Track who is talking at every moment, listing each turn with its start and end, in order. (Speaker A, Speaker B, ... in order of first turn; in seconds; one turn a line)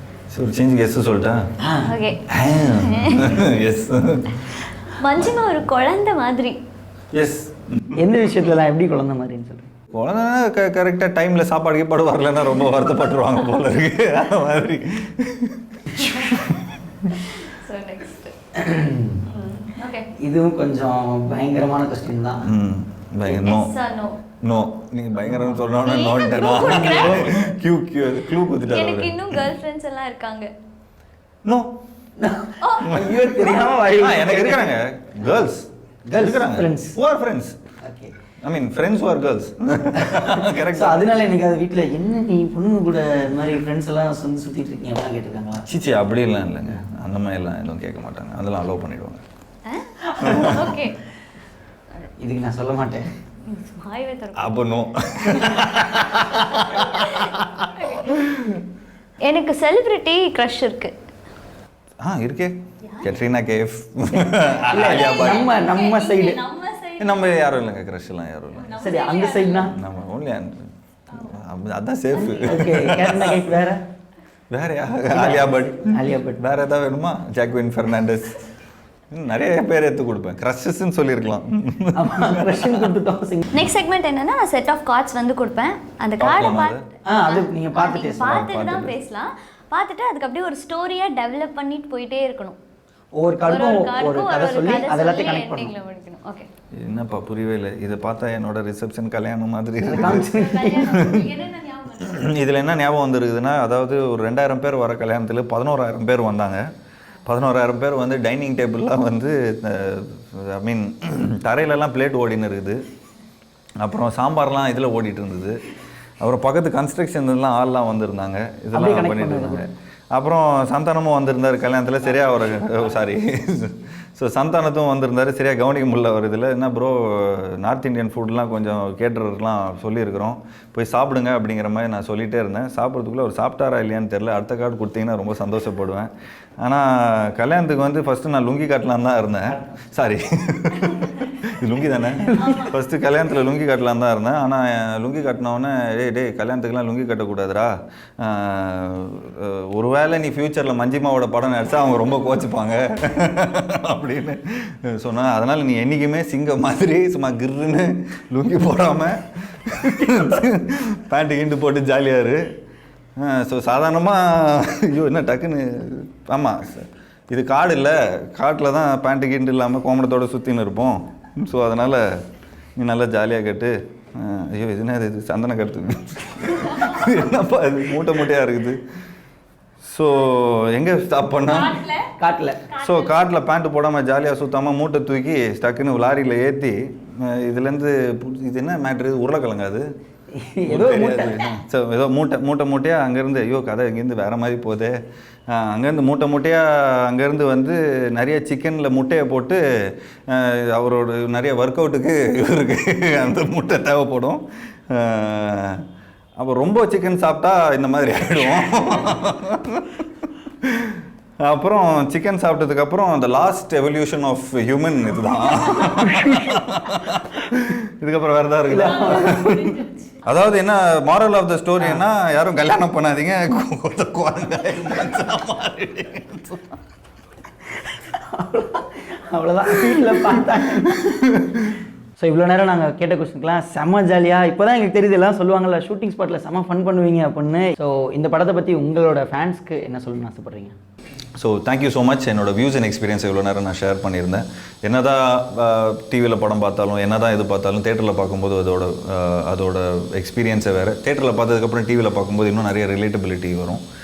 Speaker A: 0.3-1.4
Speaker B: 1.6-1.9
Speaker C: 1.9-2.2
Speaker A: 2.3-4.4
Speaker C: 2.8-3.4
Speaker C: 5.0-6.6
Speaker A: 7.1-8.1
Speaker B: 8.0-9.7
Speaker A: 9.9-16.6
Speaker C: 17.1-18.3
Speaker B: 18.6-19.2
Speaker C: 19.3-20.1
Speaker B: 20.2-22.5
Speaker A: 22.5-23.7
Speaker C: 23.2-24.2
Speaker A: 24.4-29.5
Speaker B: 25.3-25.6
Speaker C: 25.8-27.5
Speaker C: 28.6-30.5
Speaker A: 31.4-31.8
Speaker B: 32.2-34.7
Speaker C: 32.6-33.1
Speaker A: 32.9-37.6
Speaker B: 36.1-37.0
Speaker B: 37.8-38.1
Speaker A: 38.4-41.1
Speaker B: 40.0-45.6
Speaker A: 45.6-49.2
Speaker C: 49.6-51.0
Speaker B: 50.1-50.5
Speaker A: 50.2-50.8
Speaker B: 52.2-53.1
Speaker C: 53.5-54.5
Speaker A: 54.4-58.6
Speaker C: 55.2-55.7
Speaker C: 56.5-58.2
Speaker C: 59.2-60.9
Speaker A: 62.0-65.5
Speaker C: 62.9-63.1
Speaker B: 64.6-66.4
Speaker C: 64.8-67.4
Speaker A: 67.0-68.8
Speaker C: 68.6-69.7
Speaker B: 68.8-69.8
Speaker A: 69.7-73.5
Speaker C: 72.1-72.7
Speaker B: 72.4-73.8
Speaker A: 74.5-78.4
Speaker B: 75.1-76.4
Speaker A: 79.1-82.9
Speaker B: 82.0-83.6
Speaker C: 83.5-92.6
Speaker A: 86.2-86.8
Speaker B: 87.1-88.5
Speaker A: 88.2-89.0
Speaker B: 93.2-95.7
Speaker C: 93.5-96.5
Speaker A: 96.8-101.3
Speaker B: 99.8-101.2
Speaker C: 100.0-102.4
Speaker A: 102.0-106.6
Speaker A: 107.2-112.8
Speaker A: 113.8-115.6
Speaker A: 116.2-136.1
Speaker B: 118.7-119.6
Speaker A: 136.6-162.4
Speaker B: 139.5-139.9
Speaker B: 142.2-142.7
Speaker C: 142.4-142.7
Speaker A: 163.2-172.1
Speaker A: 172.8-178.8
Speaker C: 176.8-177.0
Speaker A: 179.9-181.8
Speaker C: 181.5-182.1
Speaker B: 182.2-182.6
Speaker C: 182.7-183.2
Speaker A: 182.8-189.8
Speaker B: 190.3-191.5
Speaker A: 190.7-195.0
Speaker A: 195.5-199.6
Speaker A: 200.3-205.8
Speaker A: 206.4-219.5
Speaker C: 215.6-215.9
Speaker B: 215.8-216.6
Speaker B: 218.7-219.8
Speaker C: 218.8-220.2
Speaker A: 220.2-226.7
Speaker B: 227.8-231.1
Speaker A: 229.8-231.7
Speaker B: 232.2-240.8
Speaker A: 241.4-253.8